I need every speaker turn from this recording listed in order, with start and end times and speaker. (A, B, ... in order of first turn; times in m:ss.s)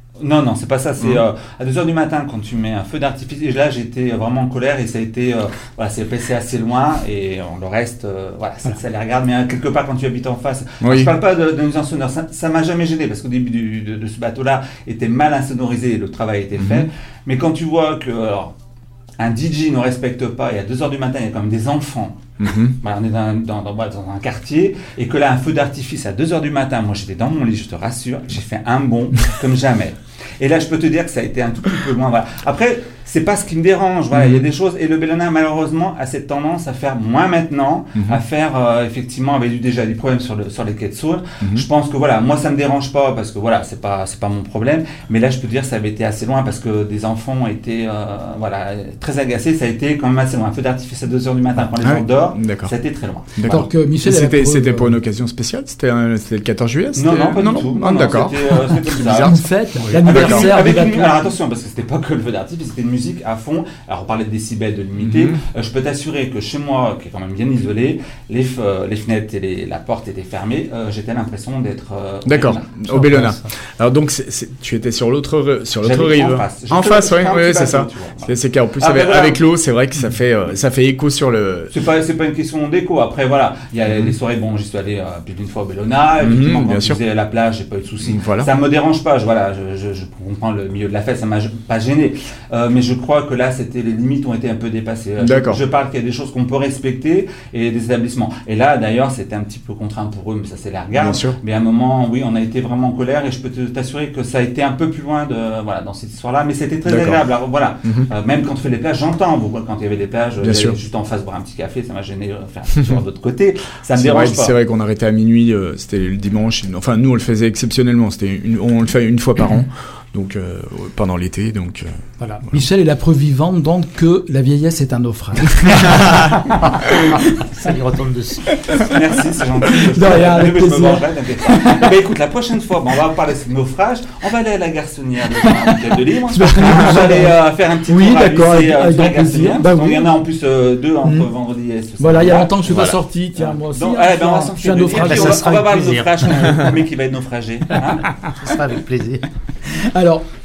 0:00.2-0:18.5 A
0:10.8-0:11.1 B
0:16.6-0:16.9 B
0:19.2-0:53.7 A
0:22.4-0:22.8 B
0:34.1-0:34.4 B
0:51.8-0:52.7 B
0:53.3-1:00.5 B
0:53.5-0:54.9 C
0:57.0-0:59.4 A
0:59.2-1:01.2 C
1:00.0-1:12.7 A
1:05.0-1:05.4 B
1:12.2-1:21.7 B
1:12.9-1:13.5 D
1:15.8-1:19.4 A
1:21.7-1:54.6 A
1:26.2-1:27.0 B
1:28.0-1:28.5 B
1:35.2-1:35.6 B
1:40.9-1:41.4 B
1:46.8-1:47.2 B
1:50.4-1:50.8 B
1:54.0-2:02.0 B
2:02.2-2:07.5 C
2:07.3-2:08.5 D
2:08.5-2:08.9 C
2:08.8-2:28.1 A
2:09.7-2:11.8 C
2:15.4-2:20.1 C
2:22.0-2:25.4 C
2:22.7-2:23.0 B
2:25.0-2:26.6 D
2:26.3-2:26.7 B
2:28.2-2:29.3 D
2:29.7-2:30.2 C